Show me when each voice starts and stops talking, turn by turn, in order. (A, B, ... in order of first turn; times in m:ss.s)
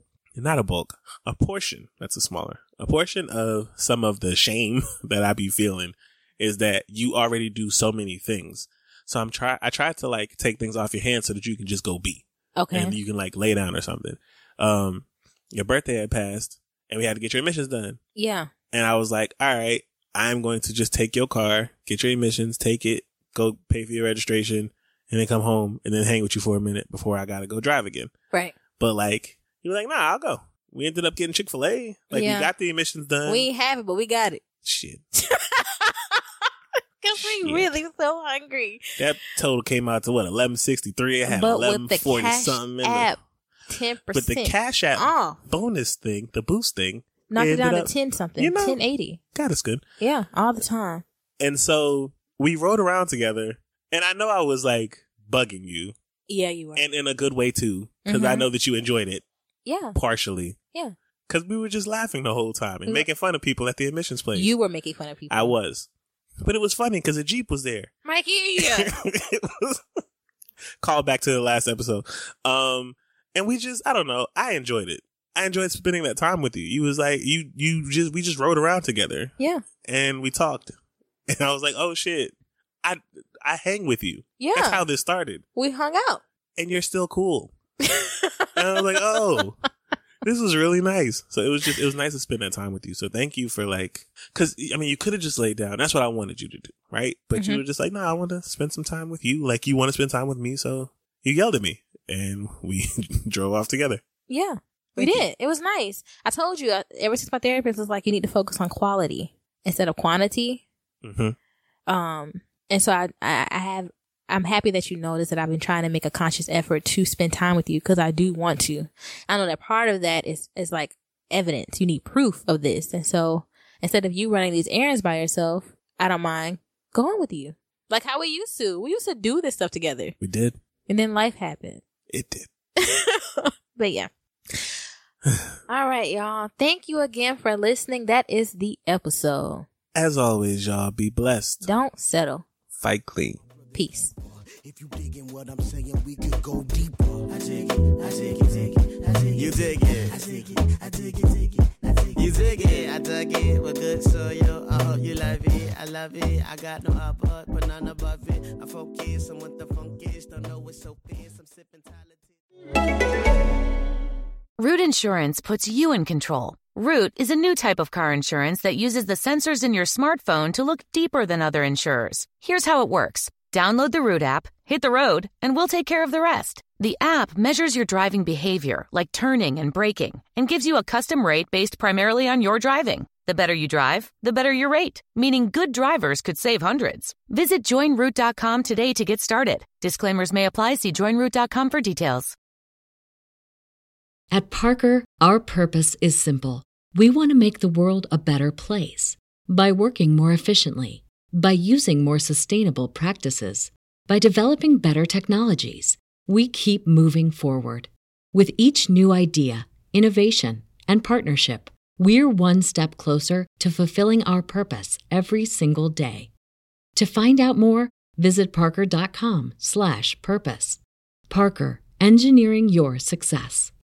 0:00.4-0:18.0 A
0:12.6-0:13.0 B
0:18.2-0:18.5 B
0:18.7-0:28.1 A
0:28.8-0:33.5 A
0:32.1-0:32.5 B
0:33.2-0:34.4 B
0:34.6-0:35.0 A
0:35.2-0:36.5 B
0:37.0-0:39.0 B
0:37.2-0:37.7 A
0:39.0-0:43.1 A
0:41.3-0:43.2 B
0:43.7-0:45.4 B
0:44.1-0:48.8 A
0:47.3-0:49.2 B
0:49.3-0:49.8 A
0:50.0-0:51.0 B
0:51.4-0:56.0 A
0:56.3-0:56.9 B
0:56.8-0:59.2 A
0:58.1-0:58.5 B
0:59.6-1:00.0 B
1:00.0-1:00.6 A
1:01.3-1:04.5 A
1:04.3-1:05.6 B
1:05.3-1:05.9 A
1:06.4-1:07.9 A
1:08.0-1:09.0 B
1:08.6-1:09.8 A
1:10.8-1:20.7 A
1:21.3-1:25.4 A
1:24.4-1:24.8 B
1:25.6-1:26.2 B
1:26.6-1:27.5 A
1:27.8-1:29.2 B
1:28.6-1:29.6 A
1:30.2-1:44.0 A
1:37.4-1:37.6 B
1:44.3-1:50.6 B
1:45.0-1:45.3 A
1:51.0-1:51.4 A
1:51.9-2:10.2 B
2:10.2-2:10.6 A
2:10.9-2:11.8 B
2:12.1-2:12.5 A
2:12.8-2:14.7 B
2:15.7-2:19.7 B
2:19.9-2:21.7 A
2:21.6-2:22.4 B
2:22.8-2:23.4 A
2:23.7-2:24.1 B
2:24.6-2:42.3 C
2:44.6-3:12.4 D
3:14.3-3:36.3 E
3:37.0-3:43.7 E